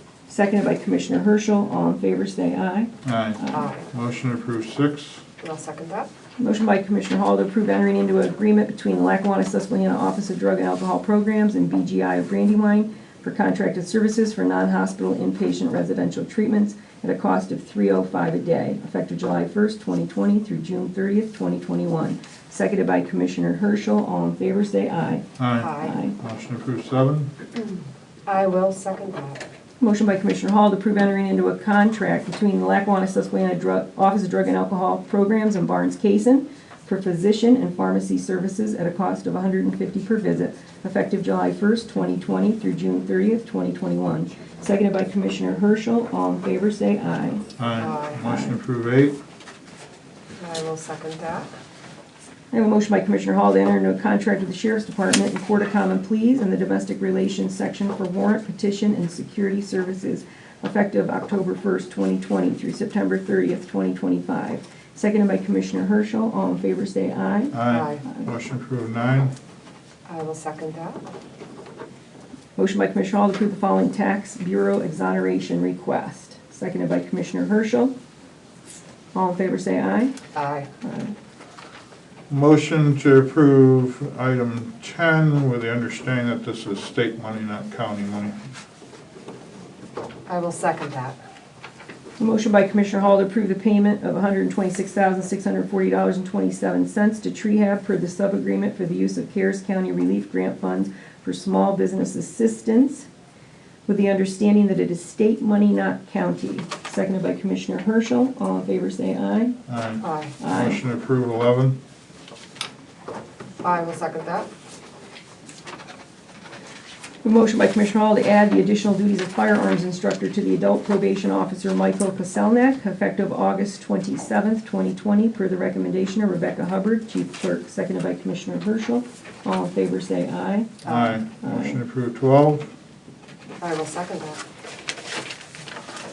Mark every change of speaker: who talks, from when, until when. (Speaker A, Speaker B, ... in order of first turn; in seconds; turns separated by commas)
Speaker A: 0.3-3.7, Speaker B: 3.0-5.2, Speaker C: 3.5-3.8, Speaker C: 5.4-6.1, Speaker A: 6.4-25.3, Speaker B: 25.4-27.3, Speaker C: 25.6-26.0, Speaker A: 25.8-26.2, Speaker C: 27.6-29.4, Speaker A: 29.8-47.5, Speaker B: 47.6-49.2, Speaker C: 47.8-48.2, Speaker A: 48.2-48.5, Speaker C: 50.4-51.5, Speaker A: 52.5-67.6, Speaker B: 67.5-69.3, Speaker C: 67.7-68.0, Speaker C: 70.1-71.0, Speaker A: 72.6-77.9, Speaker A: 79.1-80.2, Speaker C: 80.3-80.7, Speaker A: 80.8-81.1, Speaker B: 82.3-88.4, Speaker C: 90.3-91.2, Speaker A: 92.2-103.1, Speaker A: 103.9-109.6, Speaker B: 109.7-111.8, Speaker C: 110.0-110.3, Speaker A: 110.4-110.8, Speaker C: 113.6-114.5, Speaker A: 117.2-130.8, Speaker B: 130.8-132.7, Speaker C: 130.8-131.2, Speaker A: 131.4-131.8, Speaker C: 133.6-134.4